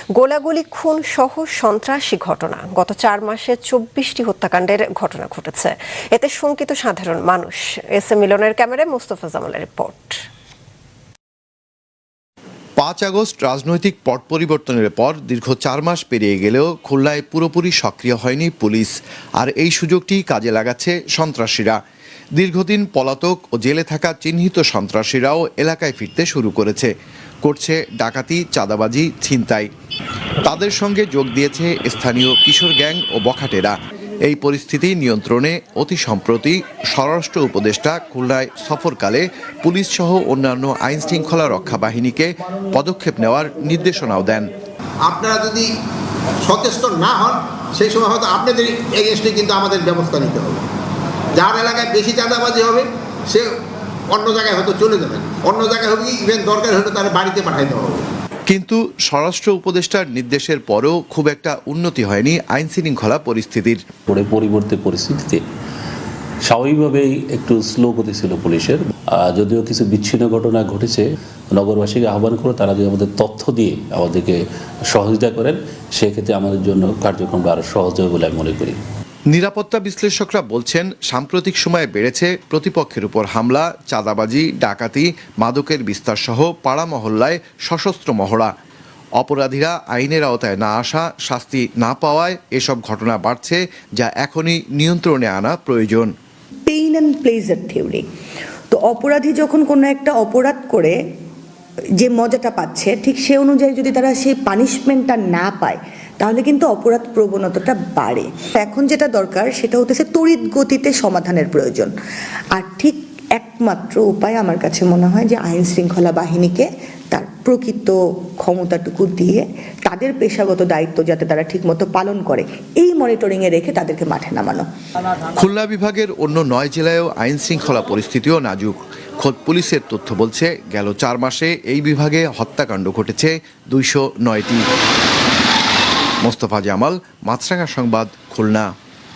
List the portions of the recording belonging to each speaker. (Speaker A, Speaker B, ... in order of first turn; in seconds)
Speaker A: 0.2-10.2
Speaker B: 12.8-21.8, 22.4-26.9, 27.4-29.7, 30.4-44.5, 58.5-63.8, 79.3-88.5, 89.2-96.1, 125.4-134.7, 136.2-138.7
Speaker C: 45.1-45.7, 46.4-50.6, 51.4-53.5, 54.1-58.0
Speaker D: 64.1-65.4, 66.5-78.8
Speaker E: 96.7-98.0, 98.7-101.0, 102.0-111.9, 112.5-124.7